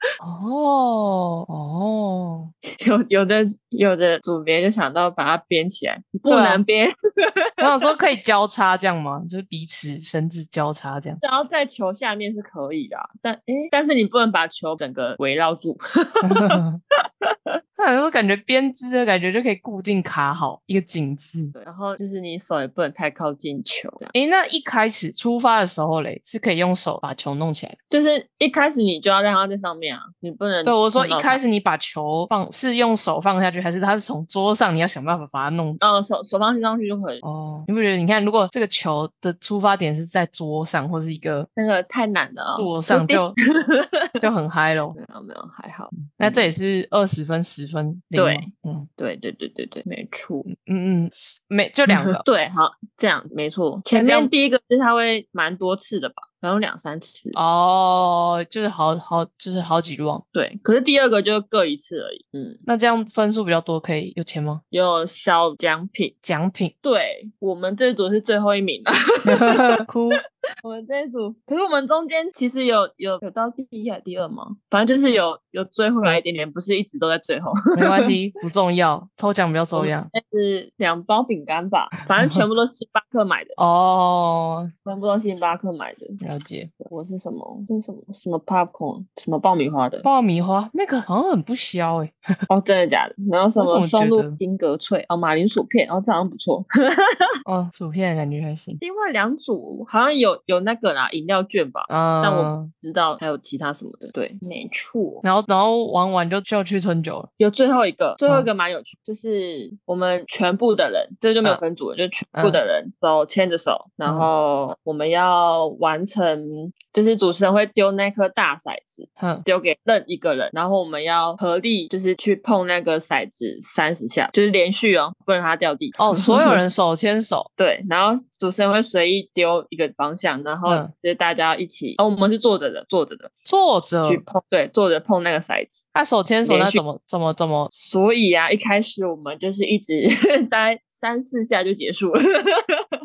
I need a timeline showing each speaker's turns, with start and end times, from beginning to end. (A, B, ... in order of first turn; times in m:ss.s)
0:00.2-0:02.5 A
0:02.7-0:07.9 B
0:06.3-0:06.6 A
0:07.6-0:11.2 A
0:11.2-0:16.6 B
0:16.2-0:16.8 A
0:17.8-0:21.5 A
0:21.5-0:24.1 B
0:24.1-0:27.8 A
0:27.9-0:31.4 B
0:30.6-0:35.8 A
0:35.8-0:37.2 B
0:37.2-0:41.5 A
0:41.6-0:44.2 B
0:42.5-0:43.4 A
0:44.2-0:45.0 A
0:44.9-0:46.5 B
0:46.0-0:48.9 A
0:48.1-0:50.5 B
0:50.4-0:52.2 A
0:51.9-0:57.4 B
0:53.9-0:54.3 A
0:57.3-1:00.2 A
1:00.3-1:02.6 B
1:02.6-1:04.6 A
1:04.7-1:06.1 B
1:06.2-1:06.7 A
1:06.8-1:09.8 B
1:09.2-1:10.2 A
1:10.6-1:18.1 B
1:17.7-1:20.1 A
1:19.7-1:23.6 B
1:23.6-1:24.7 A
1:24.8-1:26.2 B
1:26.2-1:26.7 A
1:26.8-1:30.0 B
1:30.0-1:32.2 A
1:32.5-1:37.3 B
1:33.6-1:34.4 A
1:37.4-1:38.8 A
1:38.8-1:45.2 B
1:41.9-1:42.7 A
1:45.2-1:47.3 A
1:47.4-2:06.6 B
1:52.3-1:52.6 A
1:59.2-1:59.4 A
2:06.0-2:07.5 A
2:07.6-2:13.3 B
2:10.6-2:10.9 A
2:13.4-2:14.2 A
2:14.0-2:16.8 B
2:15.9-2:17.7 A
2:17.7-2:22.9 B